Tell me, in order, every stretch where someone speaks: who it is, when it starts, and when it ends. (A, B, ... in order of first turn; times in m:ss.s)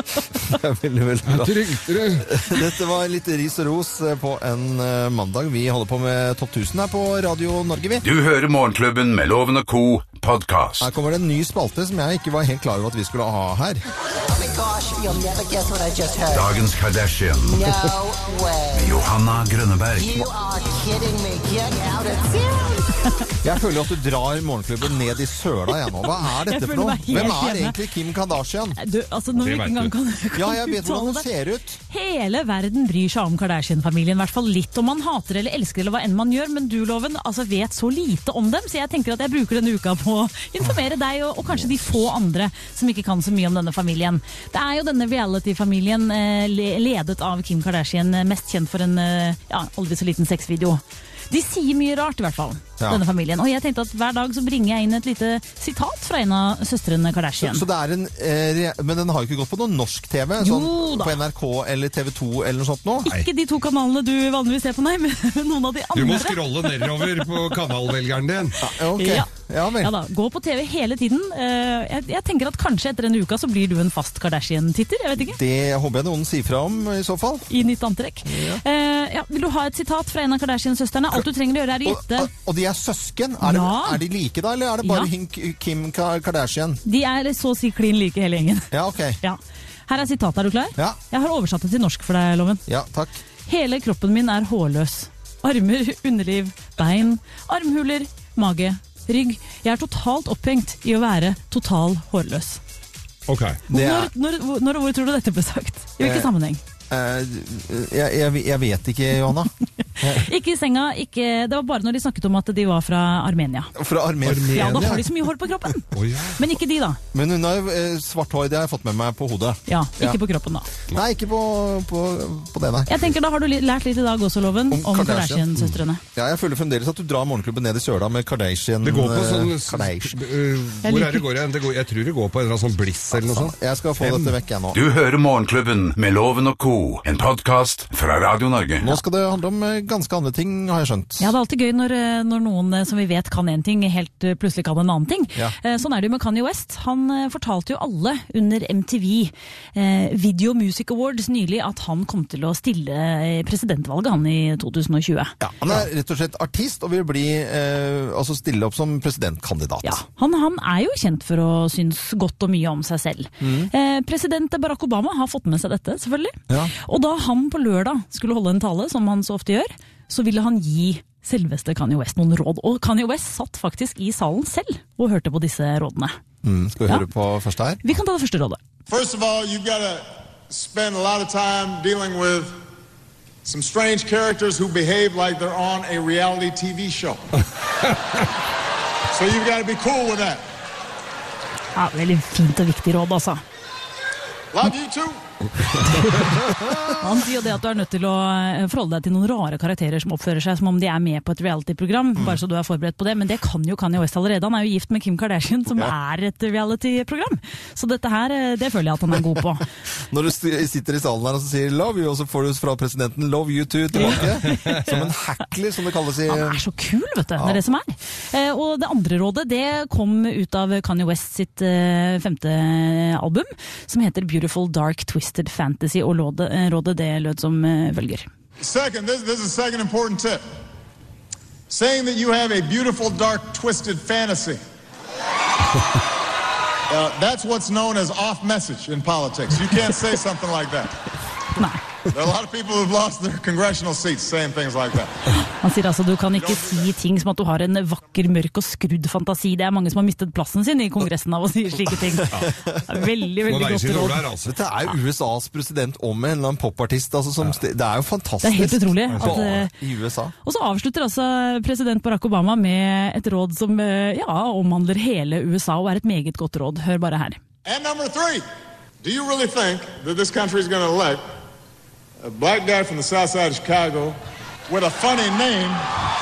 0:00.4-0:08.0 A
0:01.3-0:02.3 B
0:08.0-0:10.9 C
0:10.8-0:13.8 A
0:14.3-0:16.6 D
0:16.3-0:17.9 C
0:17.5-0:19.0 D
0:18.7-0:20.3 C
0:20.0-0:23.0 D
0:23.4-0:28.8 A
0:26.4-0:27.8 E
0:28.8-0:31.3 E
0:29.4-0:29.9 B
0:30.4-0:31.8 A
0:31.9-0:57.6 E
0:41.5-0:42.0 A
0:57.4-1:03.1 A
1:00.4-1:01.2 E
1:03.0-1:06.9 E
1:06.0-1:08.6 B
1:08.6-1:09.9 A
1:09.0-1:15.4 E
1:15.2-1:17.5 A
1:17.5-1:22.3 E
1:18.2-1:18.6 A
1:21.8-1:26.8 A
1:23.4-1:24.0 E
1:24.8-1:25.1 E
1:26.8-1:32.6 E
1:28.7-1:29.2 A
1:32.7-1:33.2 A
1:33.5-1:42.6 E
1:43.3-1:43.6 B
1:43.7-1:44.1 A
1:43.7-1:46.6 E
1:46.0-1:46.3 A
1:46.9-1:50.3 A
1:50.0-1:53.7 E
1:53.8-1:55.1 A
1:54.2-1:55.1 B
1:54.5-1:57.0 E
1:55.9-1:56.4 B
1:57.1-2:00.2 A
1:59.7-2:00.7 E
2:00.9-2:03.1 A
2:02.9-2:06.0 E
2:04.7-2:05.5 A
2:06.2-2:10.2 A
2:08.8-2:14.4 B
2:10.8-2:11.2 E
2:13.1-2:14.8 A
2:14.7-2:18.9 C
2:18.8-2:21.3 A
2:21.2-2:35.4 E
2:35.4-2:40.0 A
2:39.8-2:56.2 E
2:43.4-2:43.7 A
2:56.4-2:57.8 A
2:57.8-2:58.6 E
2:58.9-3:02.5 F
3:03.4-3:07.2 F
3:09.1-3:10.4 F
3:11.8-3:13.4 E
3:14.5-3:15.2 F
3:16.0-3:29.6 E
3:30.0-3:36.6 A
3:34.0-3:35.0 E
3:34.2-3:34.8 B
3:36.3-3:48.3 E
3:48.6-3:50.4 F
3:51.7-3:54.6 F
3:56.9-4:01.0 F
4:01.6-4:01.8 E
4:02.1-4:05.1 F
4:05.5-4:14.2 E
4:12.4-4:13.0 A
4:13.5-4:14.5 B
4:14.4-4:20.3 A
4:18.4-4:19.7 E
4:19.1-4:19.4 B
4:20.4-4:27.4 E
4:27.6-4:28.4 F
4:29.0-4:31.2 F
4:32.2-4:34.2 F
4:34.7-4:35.8 F